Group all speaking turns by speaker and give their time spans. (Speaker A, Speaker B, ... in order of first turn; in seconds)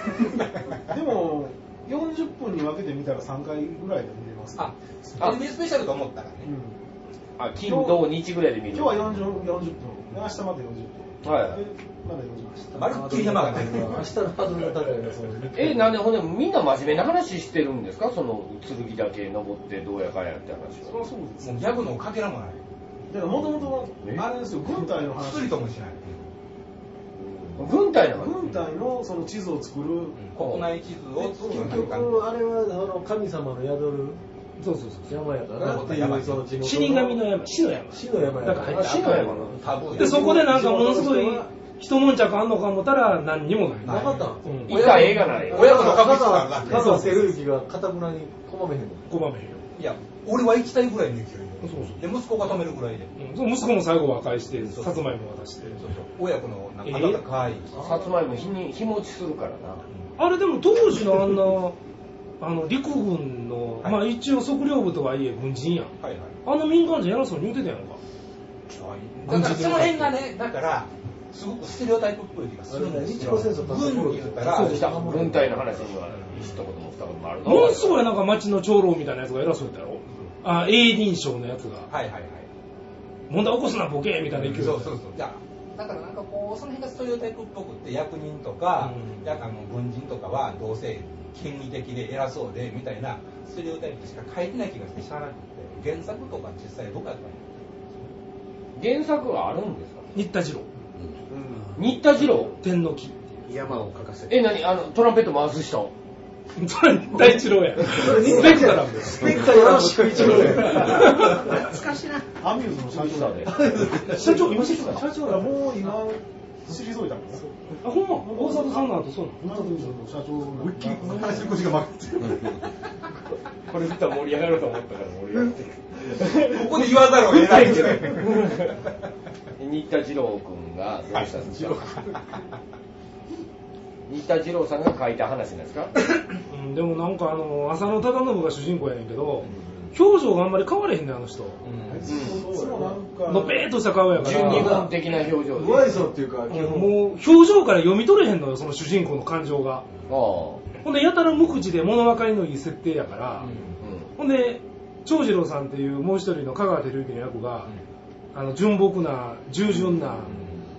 Speaker A: 0.9-5.3, 6.4-6.8, 7.6-8.2, 8.7-12.8, 20.9-21.9, 23.1-25.6, 28.1-30.2, 112.4-114.0, 115.2-117.4, 118.2-121.6, 141.9-143.7
Speaker B: 4.6-6.5, 12.8-14.2, 21.4-22.6, 25.1-26.3, 30.2-32.3, 35.6-36.5, 39.1-40.3, 43.8-47.2, 49.8-53.1, 54.6-55.1, 55.7-57.7, 66.0-66.4, 68.7-75.1, 76.1-76.6, 81.9-82.5, 84.3-98.1, 121.1-122.6, 126.4-128.6, 131.1-132.2, 141.6-142.2, 153.4-153.8
Speaker C: 7.4-9.1, 11.2-11.6, 15.5-21.0, 27.6-28.3, 30.4-30.6, 38.6-39.6, 44.7-46.0, 57.8-59.8, 74.6-78.0, 98.8-100.1, 101.8-102.5, 104.3-105.9, 123.7-128.8, 129.6-131.9, 134.1-135.9, 142.1-142.4, 144.2-146.1, 150.1-150.6, 153.8-154.1
Speaker D: 12.7-15.9, 27.2-27.6, 31.1-34.2, 35.1-37.2, 37.9-41.5, 43.9-49.1, 57.7-58.4, 72.7-75.8, 101.3-102.5, 107.2-111.6, 113.1-115.8, 139.5-139.9, 142.1-143.0, 144.1-147.0
Speaker E: 34.6-35.3, 36.5-45.4, 46.7-47.4, 49.1-49.6, 51.6-52.0, 53.2-55.8, 56.9-57.2, 60.2-61.8, 62.4-65.9, 66.5-68.0, 69.3-70.1, 74.4-75.2, 77.5-81.9, 83.3-85.0, 88.8-89.3, 100.1-100.7, 102.6-103.5, 106.6-111.5, 113.9-115.3, 117.8-119.5, 136.5-141.6, 143.3-144.9, 146.5-149.9, 150.8-153.5, 154.2-157.7, 158.3-160.4
Speaker F: 103.5-104.5, 109.6-110.2, 111.7-112.2